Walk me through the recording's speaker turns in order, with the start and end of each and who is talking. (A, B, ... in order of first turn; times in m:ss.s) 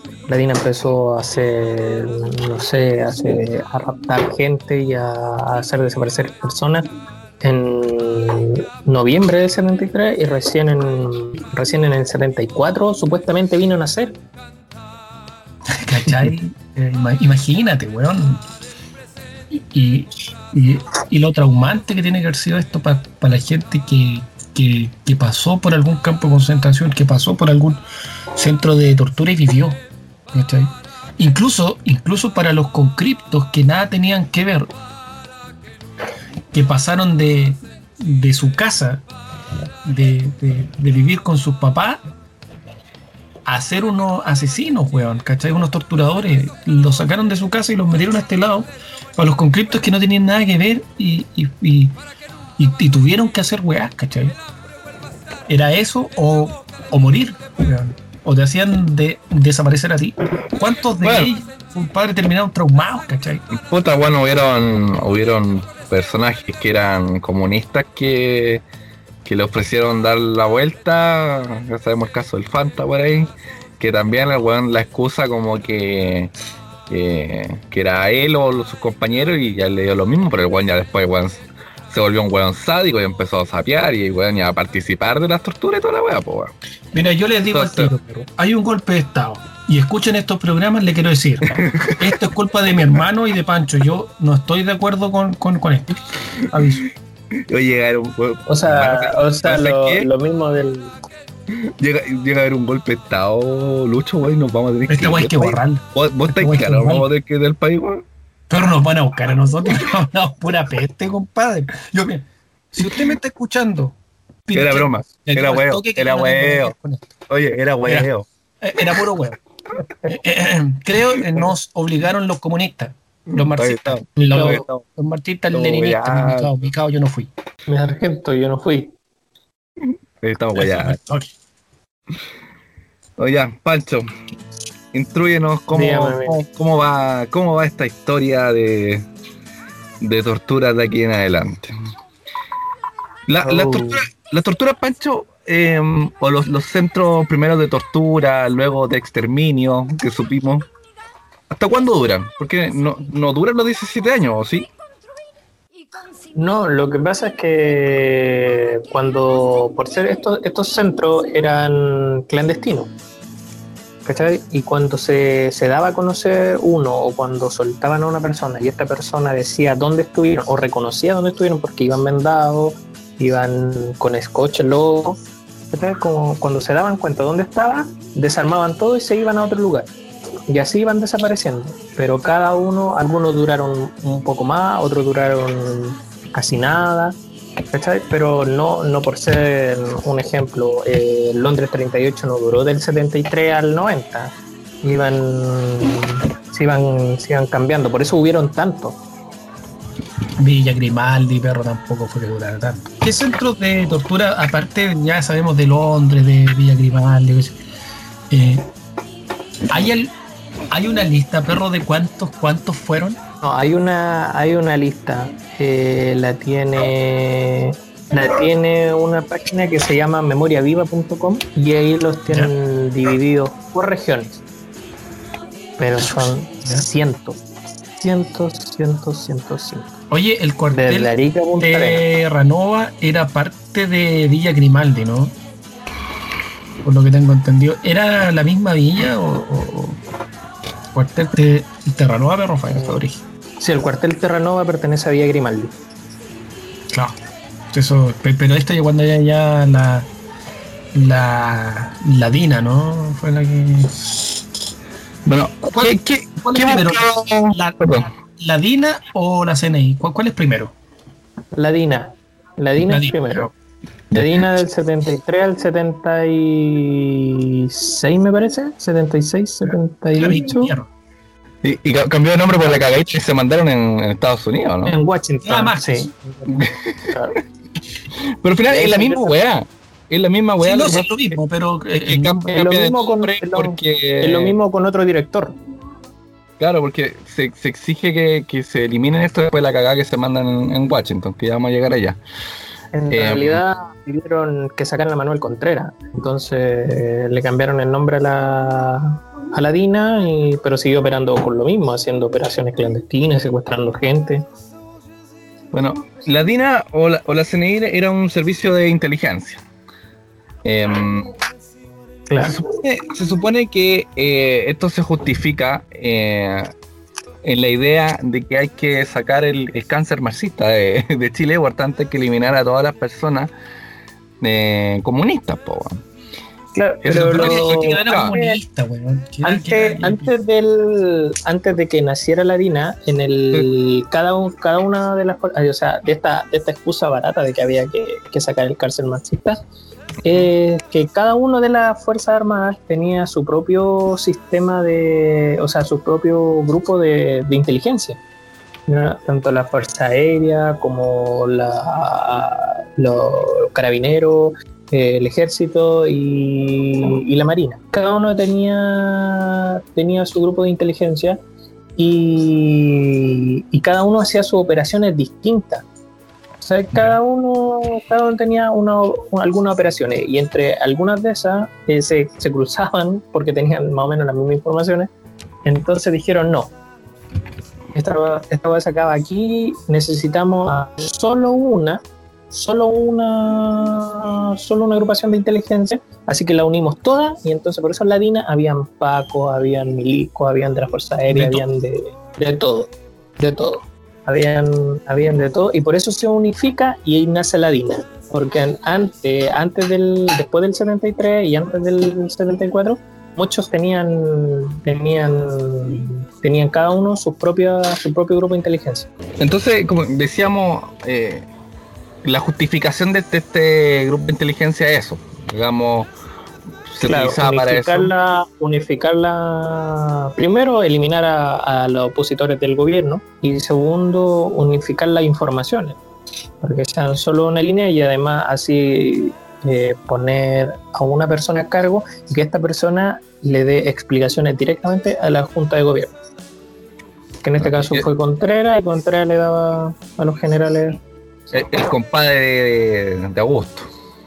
0:00.3-0:06.9 A
0:07.4-0:14.2 A
0:15.7-0:18.4 B
0:19.7-0:27.8 B
0:28.3-0:29.8 B
0:30.3-0:34.7 B
0:36.5-0:39.0 B
0:39.8-0:42.0 B
0:43.5-0:52.0 B
0:52.6-0:54.4 B
0:55.5-1:03.4 B
1:01.0-1:01.3 C
1:03.5-1:08.6 C
1:09.2-1:16.3 C
1:16.9-1:26.5 C
1:26.9-1:36.8 B
1:27.5-1:27.9 C
1:31.5-1:32.1 C
1:37.5-1:40.1 C
1:38.5-1:40.9 A
1:41.8-1:48.0 C
1:44.9-1:47.1 B
1:48.5-1:57.1 B
1:54.5-1:56.7 C
1:57.3-1:58.2 C
1:57.8-1:58.1 B
1:58.6-1:59.4 B
2:00.0-2:07.3 B
2:03.3-2:04.8 C
2:04.2-2:04.6 A
2:05.5-2:06.5 C
2:07.7-2:08.9 A
2:09.8-2:11.0 C
2:10.6-2:11.3 B
2:13.2-2:14.1 C
2:14.9-2:19.0 C
2:15.7-2:16.4 A
2:20.0-2:21.8 C
2:23.3-2:30.6 C
2:23.4-2:24.0 A
2:31.5-2:34.7 C
2:36.3-2:42.9 A
2:44.0-2:55.2 A
2:55.7-2:59.9 A
3:00.5-3:07.2 A
3:07.7-3:19.0 A
3:20.4-3:27.6 B
3:28.3-3:28.7 B
3:29.7-3:30.1 B
3:30.7-3:33.2 B
3:33.4-3:44.4 A
3:45.8-3:47.4 A
3:48.0-3:49.9 A
3:50.1-3:55.3 B
3:50.7-3:52.0 A
3:56.8-4:00.0 B
4:00.9-4:03.2 B
4:03.6-4:05.7 A
4:07.7-4:10.1 B
4:10.9-4:14.2 B
4:15.3-4:18.1 C
4:15.6-4:20.7 B
4:21.5-4:23.5 A
4:22.8-4:23.5 B
4:24.1-4:30.7 A
4:30.2-4:30.9 B
4:31.6-4:34.9 C
4:34.8-4:37.4 A
4:35.4-4:36.1 B
4:36.5-4:37.2 C
4:38.4-4:41.4 C
4:38.7-4:39.4 A
4:40.6-4:42.4 B
4:42.0-4:44.6 C
4:42.5-4:45.5 A
4:46.6-4:52.2 C
4:52.9-5:04.4 A
4:53.1-4:53.6 C
5:05.7-5:09.6 C
5:10.6-5:11.3 C
5:12.3-5:12.5 A
5:12.4-5:16.7 C
5:17.4-5:23.5 C
5:24.4-5:26.0 C
5:26.7-5:28.6 A
5:27.0-5:28.3 C
5:27.1-5:30.3 B
5:29.4-5:39.6 A
5:40.2-5:48.2 A
5:48.9-6:01.4 A
6:02.0-6:05.8 A
6:06.6-6:15.1 A
6:15.6-6:16.7 A
6:17.9-6:49.1 A
6:31.3-6:31.6 B
6:49.4-6:51.4 C
6:52.2-6:56.1 C
6:56.9-6:58.1 C
6:57.0-7:06.0 A
7:06.6-7:16.1 A
7:17.4-7:21.0 A
7:17.6-7:18.0 C
7:21.5-7:23.9 C